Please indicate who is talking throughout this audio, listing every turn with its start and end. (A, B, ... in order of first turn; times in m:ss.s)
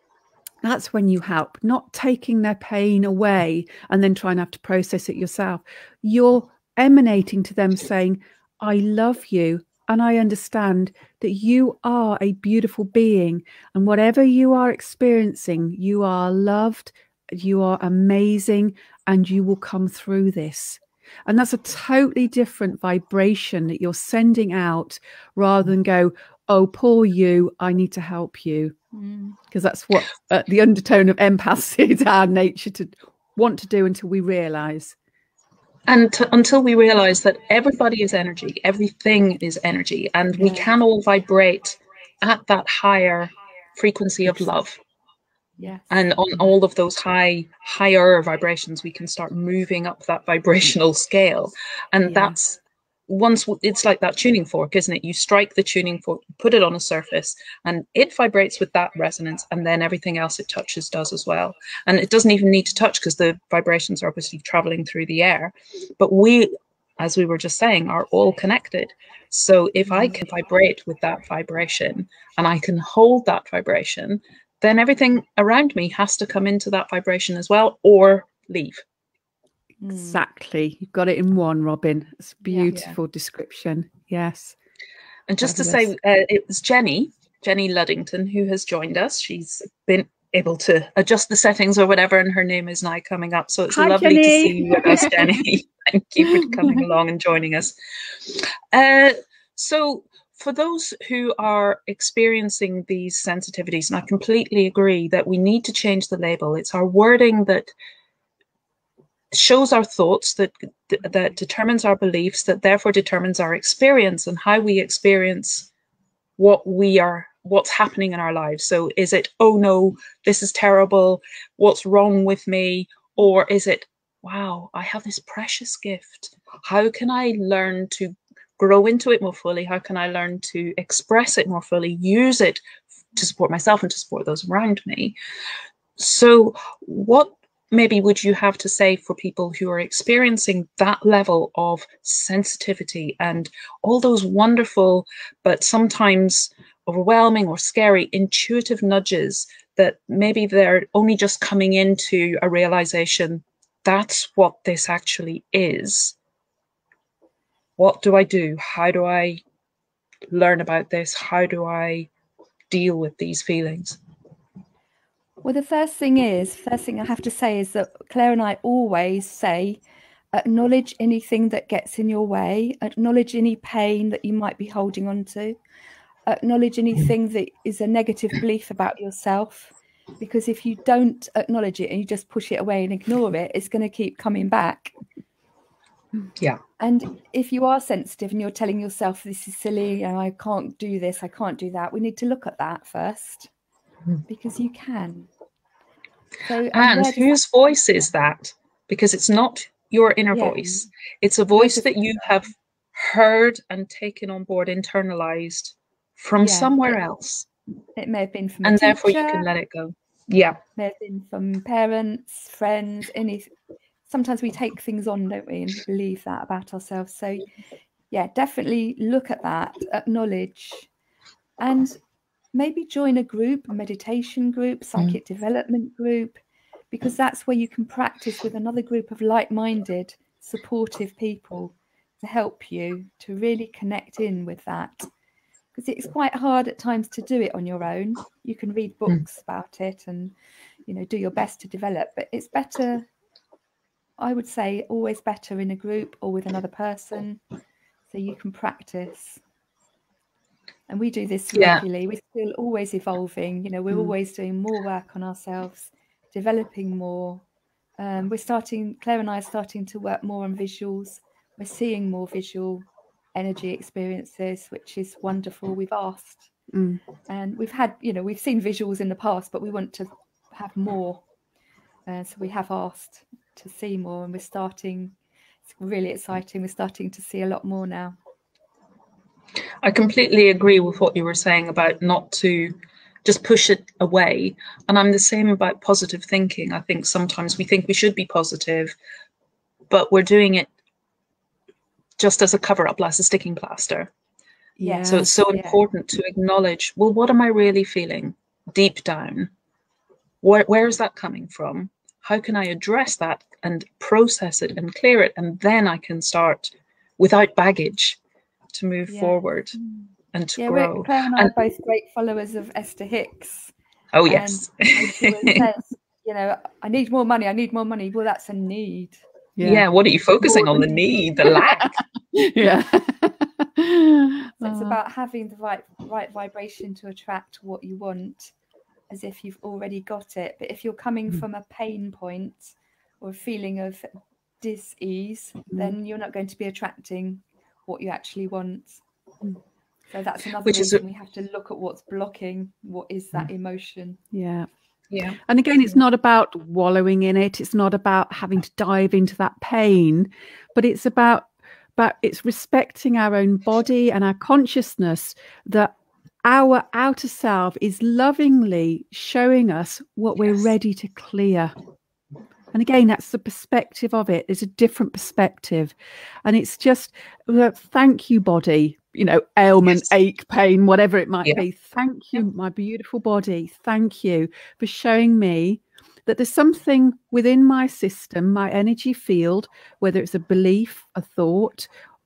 0:00.6-0:28.7 A
0:28.9-0:29.4 B
0:29.5-0:35.0 A
0:35.9-0:44.8 C
0:40.3-0:40.7 B
0:45.9-1:18.8 C
0:52.0-0:52.3 A
1:19.8-1:20.2 B
1:19.8-1:24.6 A
1:22.4-1:23.0 B
1:25.3-1:47.7 C
1:25.4-1:25.9 A
1:33.7-1:35.4 A
1:36.3-1:36.8 A
1:49.3-1:55.7 C
1:56.4-2:12.6 C
2:13.1-2:15.1 C
2:16.0-2:36.1 C
2:37.8-2:39.4 C
2:40.3-2:42.1 C
2:42.7-2:44.0 C
2:45.4-2:49.8 B
2:50.3-2:55.6 B
2:56.2-3:04.9 B
3:06.8-3:13.5 B
3:14.3-3:15.3 B
3:16.4-3:17.4 B
3:16.7-3:27.5 C
3:20.3-3:20.6 B
3:21.5-3:21.9 B
3:26.4-3:26.7 B
3:28.0-3:29.5 B
3:28.6-3:30.6 C
3:30.8-3:33.5 B
3:34.1-3:37.4 B
3:38.1-3:40.9 B
3:41.6-3:42.0 B
3:42.5-3:46.4 B
3:46.9-3:55.1 B
3:55.7-4:00.3 B
4:00.8-4:03.1 B
4:04.2-4:07.4 B
4:08.1-4:09.4 B
4:10.9-4:17.4 B
4:11.5-4:11.8 C
4:18.0-4:26.5 B
4:26.7-4:27.0 A
4:27.3-4:31.2 B
4:32.0-4:35.1 B
4:35.7-4:38.2 B
4:39.8-4:48.9 C
4:49.9-4:50.7 C
4:52.2-4:54.1 C
4:54.8-4:55.3 A
4:54.8-4:55.8 B
4:55.0-4:59.5 C
5:00.4-5:08.2 C
5:08.7-5:09.8 C
5:09.1-5:10.0 B
5:10.3-5:11.5 C
5:10.6-5:13.7 B
5:14.1-5:15.7 C
5:14.3-5:19.2 B
5:19.6-5:19.8 A
5:19.6-5:21.9 C
5:20.4-5:20.9 A
5:21.4-5:25.0 A
5:24.6-5:28.5 B
5:29.1-5:34.1 B
5:34.6-5:39.0 B
5:40.1-5:44.2 B
5:40.6-5:41.0 C
5:44.3-5:44.7 A
5:45.1-5:45.4 C
5:45.4-5:55.9 A
5:56.4-6:01.7 A
6:02.7-6:05.9 A
6:06.4-6:21.9 A